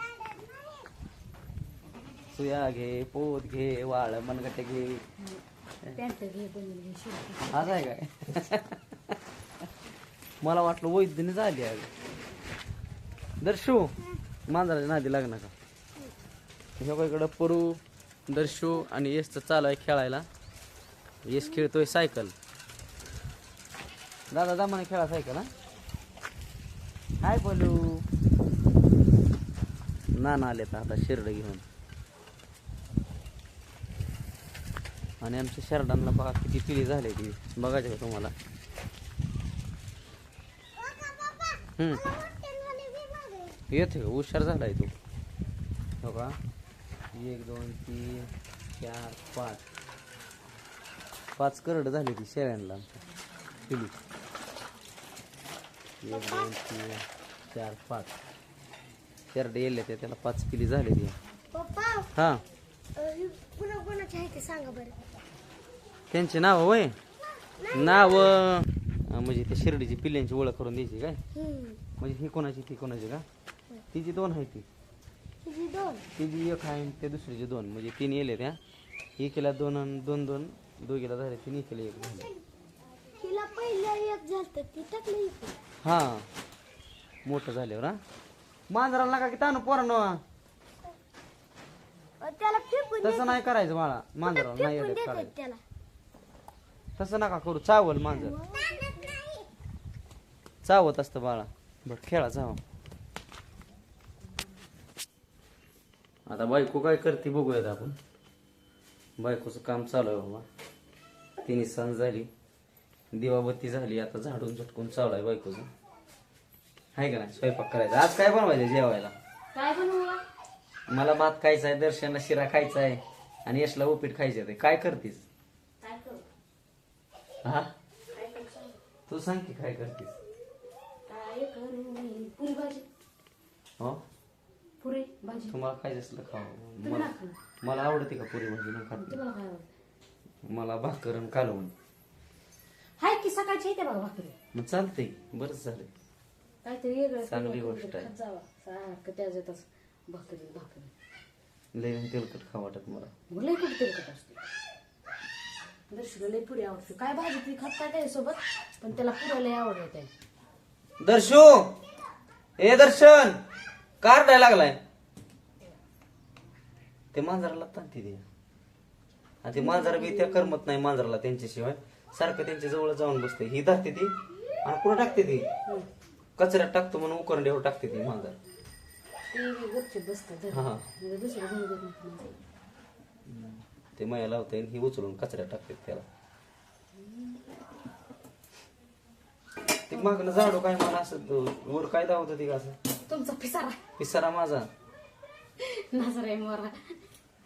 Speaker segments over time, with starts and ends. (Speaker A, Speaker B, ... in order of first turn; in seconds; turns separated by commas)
Speaker A: 2.3-5.0, Speaker B: 5.2-7.8, Speaker A: 7.5-8.8, Speaker A: 10.4-11.9, Speaker A: 13.4-13.9, Speaker A: 14.5-15.5, Speaker A: 16.8-20.3, Speaker A: 21.2-22.3, Speaker A: 24.3-25.5, Speaker A: 27.2-28.1, Speaker A: 30.1-31.6, Speaker A: 35.2-38.3, Speaker C: 40.8-41.6, Speaker A: 41.8-42.1, Speaker C: 42.1-43.6, Speaker A: 43.7-44.9, Speaker A: 46.0-46.4, Speaker A: 47.1-49.6, Speaker A: 51.4-52.9, Speaker A: 53.7-54.0, Speaker A: 56.0-58.1, Speaker C: 56.1-56.5, Speaker A: 59.3-61.1, Speaker C: 61.5-62.1, Speaker A: 62.1-62.4, Speaker C: 62.9-65.0, Speaker A: 66.1-67.0, Speaker C: 67.6-68.3, Speaker A: 67.7-71.2, Speaker C: 71.3-71.8, Speaker A: 72.0-73.2, Speaker A: 73.9-74.7, Speaker C: 75.4-76.1, Speaker A: 76.1-78.6, Speaker A: 79.2-82.3, Speaker C: 83.2-85.6, Speaker A: 85.8-86.3, Speaker A: 87.2-88.0, Speaker A: 88.7-90.2, Speaker C: 92.2-93.4, Speaker A: 93.0-95.3, Speaker C: 94.2-95.6, Speaker A: 97.0-98.4, Speaker C: 98.1-99.5, Speaker A: 100.6-102.6, Speaker A: 106.3-108.0, Speaker A: 109.2-110.5, Speaker A: 111.4-112.3, Speaker A: 113.1-115.7, Speaker A: 116.9-119.1, Speaker B: 119.5-120.2, Speaker A: 120.9-125.2, Speaker B: 125.8-126.2, Speaker A: 127.4-127.7, Speaker B: 128.1-128.8, Speaker A: 129.1-130.2, Speaker B: 131.1-132.8, Speaker B: 134.8-135.6, Speaker A: 135.5-137.1, Speaker B: 136.8-137.4, Speaker A: 137.6-139.2, Speaker B: 138.9-139.7, Speaker A: 140.4-141.7, Speaker B: 143.0-144.3, Speaker A: 144.5-145.9, Speaker B: 146.6-150.9, Speaker A: 147.2-148.1, Speaker A: 151.7-153.1, Speaker B: 153.3-154.4, Speaker B: 155.9-160.1, Speaker A: 161.0-161.7, Speaker A: 162.6-163.4, Speaker A: 164.0-164.8, Speaker A: 167.1-168.2, Speaker A: 169.4-175.4, Speaker B: 169.6-170.6, Speaker A: 176.4-178.3, Speaker B: 179.3-182.3, Speaker A: 180.5-180.9, Speaker A: 183.3-186.1, Speaker B: 186.9-187.4, Speaker A: 189.9-192.8, Speaker B: 189.9-190.2, Speaker B: 193.1-193.8, Speaker A: 194.0-194.7, Speaker B: 195.6-197.0